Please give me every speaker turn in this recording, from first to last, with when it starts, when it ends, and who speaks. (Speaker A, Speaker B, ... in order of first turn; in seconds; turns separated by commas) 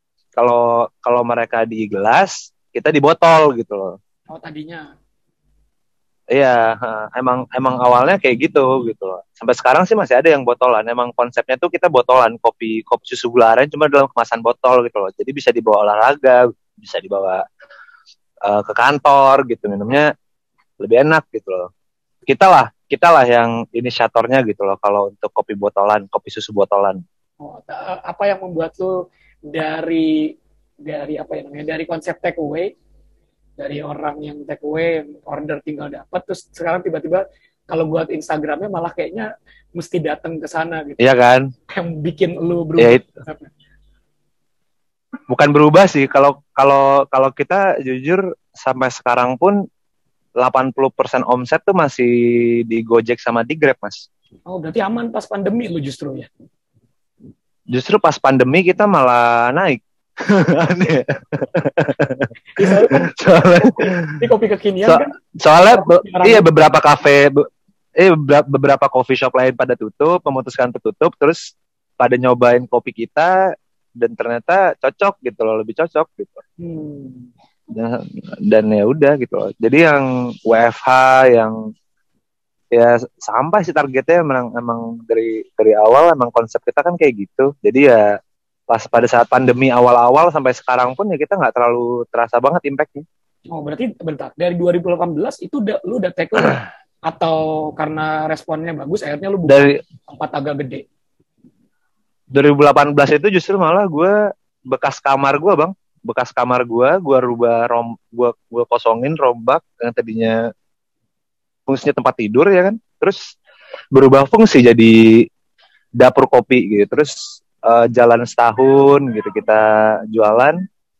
Speaker A: 0.3-4.0, Speaker B: 4.3-4.8, Speaker A: 6.3-17.4, Speaker A: 18.4-20.1, Speaker A: 20.8-21.7, Speaker A: 22.3-27.0, Speaker B: 27.4-28.9, Speaker B: 29.5-30.3, Speaker B: 30.8-32.7, Speaker B: 33.6-41.0, Speaker A: 41.0-41.5, Speaker B: 41.7-43.5, Speaker A: 42.8-43.0, Speaker A: 45.3-49.5, Speaker A: 50.4-54.1, Speaker B: 54.5-56.3, Speaker A: 57.7-64.2, Speaker B: 62.5-65.1, Speaker A: 64.8-67.5, Speaker B: 65.6-66.5, Speaker A: 68.0-73.3, Speaker A: 74.0-76.4, Speaker B: 76.6-77.3, Speaker A: 77.7-81.5, Speaker A: 82.7-88.1, Speaker A: 88.7-93.0, Speaker B: 93.5-100.8, Speaker A: 99.5-99.8, Speaker A: 102.3-104.2, Speaker A: 104.7-110.4, Speaker A: 111.7-113.3, Speaker A: 113.9-115.0, Speaker A: 116.0-120.6